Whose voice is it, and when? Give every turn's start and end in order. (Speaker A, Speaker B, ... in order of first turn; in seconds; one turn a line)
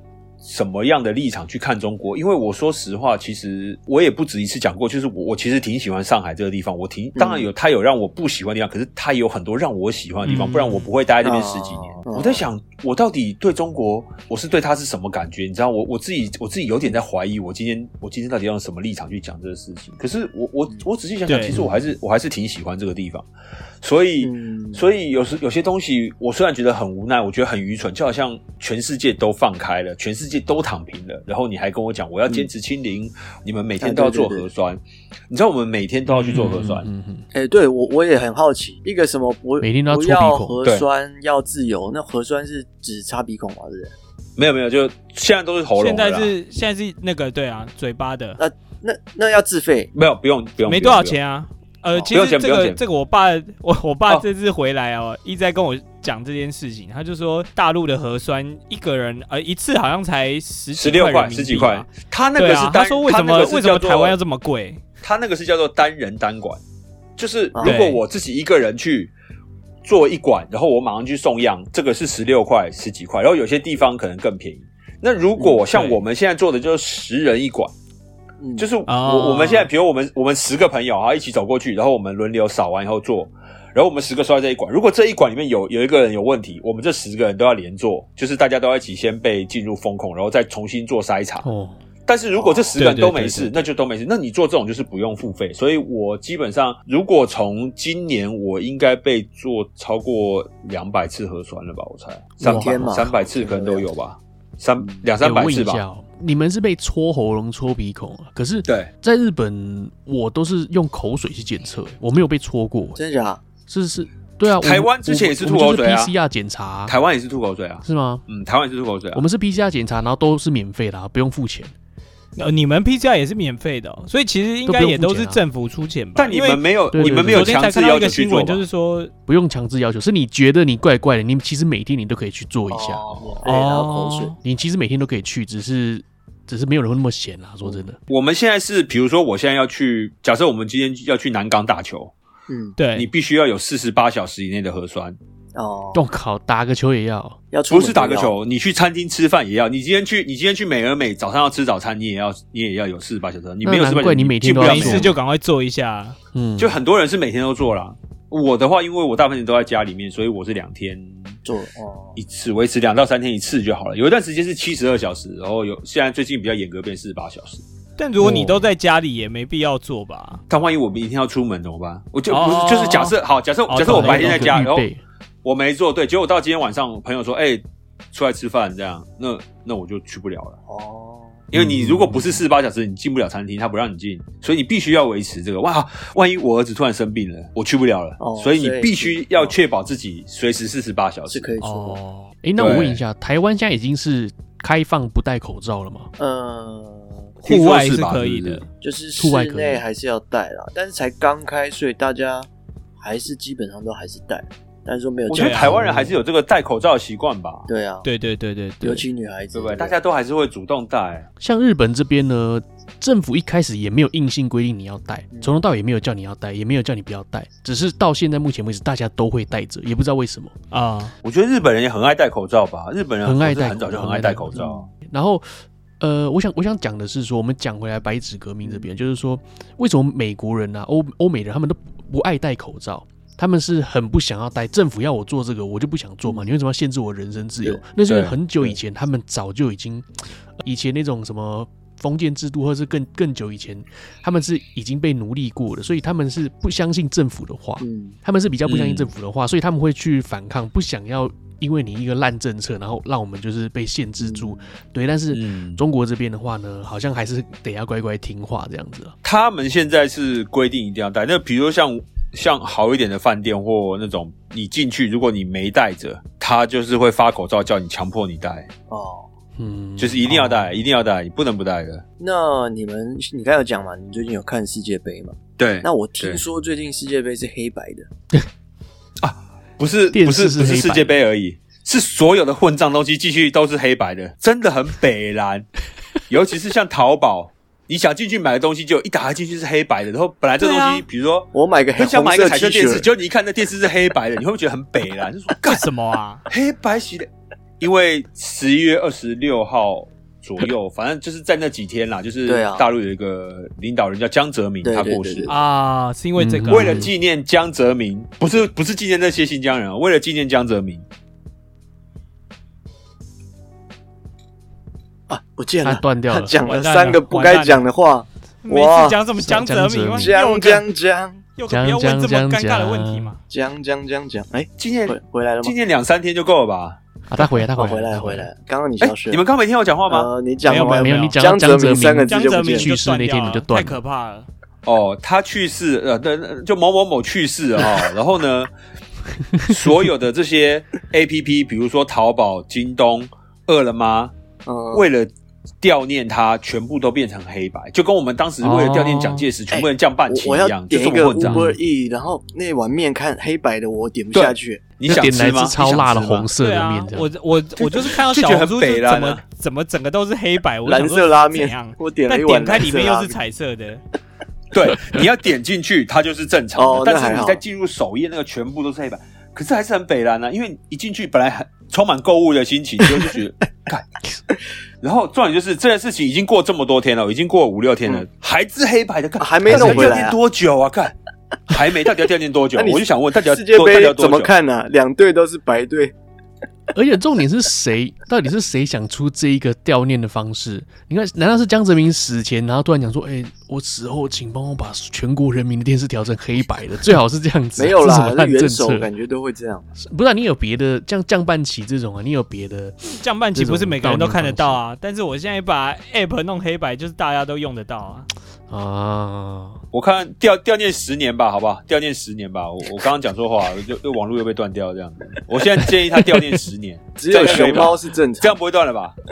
Speaker A: 0.4-23.3
Speaker B: 7.2-7.5
Speaker C: 10.2-10.9
Speaker B: 11.2-12.4
Speaker C: 21.3-21.6
Speaker D: 21.5-21.8
Speaker A: 23.8-36.9
Speaker B: 24.2-24.8
Speaker B: 33.8-34.5
Speaker D: 36.1-37.2
Speaker B: 37.3-43.9
Speaker D: 39.6-40.5
Speaker A: 44.4-46.3
Speaker C: 45.8-48.4
Speaker B: 48.4-49.9
Speaker A: 49.9-51.2
Speaker C: 50.6-64.8
Speaker A: 52.1-52.8
Speaker A: 60.8-64.2
Speaker A: 65.0-66.6
Speaker A: 67.2-69.1
Speaker C: 67.6-68.0
Speaker A: 69.8-77.7
Speaker B: 75.4-75.6
Speaker C: 75.7-76.0
Speaker B: 78.4-78.7
Speaker A: 78.6-91.5
Speaker C: 78.9-79.7
Speaker D: 91.4-91.8
Speaker A: 92.0-105.8
Speaker B: 92.3-92.8
Speaker C: 92.8-93.6
Speaker B: 102.4-103.9
Speaker D: 102.5-103.1
Speaker B: 104.8-105.0
Speaker D: 105.2-113.0
Speaker B: 112.9-113.4
Speaker D: 113.7-117.0
Speaker A: 114.5-116.1
Speaker A: 116.9-119.2
Speaker D: 117.8-118.2
Speaker D: 119.1-121.7
Speaker C: 122.3-129.1
Speaker D: 124.7-125.4
Speaker A: 126.2-128.6
Speaker D: 126.9-127.5
Speaker D: 129.3-133.0
Speaker B: 132.7-134.3
Speaker A: 133.1-133.4
Speaker C: 133.4-134.3
Speaker D: 134.4-138.0
Speaker A: 138.1-142.1
Speaker B: 142.5-142.8
Speaker C: 142.8-143.1
Speaker A: 142.9-145.2
Speaker B: 145.5-146.0
Speaker D: 145.9-147.4
Speaker B: 147.5-148.3
Speaker A: 147.7-155.1
Speaker D: 153.6-155.1
Speaker C: 154.6-156.2
Speaker D: 156.3-156.8
Speaker A: 156.6-161.4
Speaker B: 161.4-162.2
Speaker A: 162.2-167.6
Speaker C: 168.0-170.4
Speaker D: 168.2-168.7
Speaker A: 170.5-174.8
Speaker C: 172.3-173.2
Speaker C: 173.7-174.6
Speaker D: 173.8-175.0
Speaker A: 175.4-180.6
Speaker B: 180.7-181.4
Speaker A: 181.5-191.5
Speaker D: 181.5-182.4
Speaker B: 188.2-189.6
Speaker B: 191.3-192.0
Speaker C: 191.6-192.3
Speaker D: 192.4-196.1
Speaker A: 192.6-193.0
Speaker B: 196.2-197.3
Speaker C: 197.4-198.7
Speaker A: 197.4-198.6
Speaker B: 198.8-202.5
Speaker D: 199.2-199.8
Speaker B: 203.0-206.1
Speaker A: 205.3-207.7
Speaker C: 205.3-205.8
Speaker B: 207.7-208.1
Speaker C: 208.0-209.1
Speaker B: 208.8-209.9
Speaker A: 209.5-211.3
Speaker D: 211.4-220.5
Speaker C: 220.7-221.1
Speaker A: 221.2-224.8
Speaker D: 223.2-225.4
Speaker B: 224.6-224.8
Speaker D: 226.0-240.1
Speaker B: 228.6-228.9
Speaker B: 236.2-236.5
Speaker A: 238.1-238.3
Speaker D: 240.6-259.1
Speaker B: 247.8-248.2
Speaker A: 248.7-249.1
Speaker B: 254.2-254.7
Speaker A: 255.3-255.8
Speaker A: 259.2-268.7
Speaker B: 268.9-269.3
Speaker D: 269.6-270.8
Speaker A: 270.0-272.0
Speaker B: 272.2-278.1
Speaker A: 275.6-276.4
Speaker A: 279.2-285.7
Speaker D: 280.1-281.1
Speaker A: 286.3-295.8
Speaker C: 290.6-291.0
Speaker B: 291.5-293.1
Speaker C: 295.7-296.4
Speaker A: 296.5-297.3
Speaker A: 297.8-305.5
Speaker B: 302.4-302.9
Speaker B: 304.8-305.5
Speaker C: 305.5-307.1
Speaker D: 306.4-307.1
Speaker A: 306.7-311.0
Speaker B: 315.3-319.2
Speaker D: 315.8-316.5
Speaker C: 316.6-317.8
Speaker C: 318.6-320.8
Speaker D: 319.4-320.3
Speaker B: 320.1-321.4
Speaker C: 321.6-323.4
Speaker D: 321.7-323.3
Speaker B: 323.5-325.7
Speaker A: 324.8-327.0
Speaker D: 327.3-328.5
Speaker B: 327.7-329.4
Speaker A: 329.0-330.3
Speaker B: 330.1-332.9
Speaker C: 330.7-331.4
Speaker D: 330.7-334.0
Speaker C: 332.3-334.5
Speaker A: 334.8-338.7
Speaker A: 339.7-344.3
Speaker B: 344.6-345.1
Speaker A: 344.9-351.7
Speaker D: 348.6-349.5
Speaker B: 349.7-354.8
Speaker D: 351.4-351.8
Speaker A: 354.3-356.5
Speaker D: 355.1-357.3
Speaker C: 356.6-364.0
Speaker A: 357.8-359.4
Speaker B: 360.9-363.4
Speaker A: 364.7-374.1
Speaker B: 366.7-367.6
Speaker A: 375.0-381.1
Speaker B: 379.4-380.4
Speaker D: 379.7-380.2
Speaker A: 381.7-384.5
Speaker B: 382.7-386.1
Speaker D: 386.9-399.1
Speaker B: 397.8-399.9
Speaker D: 400.0-404.8
Speaker C: 403.2-408.2
Speaker D: 408.7-409.8
Speaker A: 409.9-419.1
Speaker B: 417.2-418.6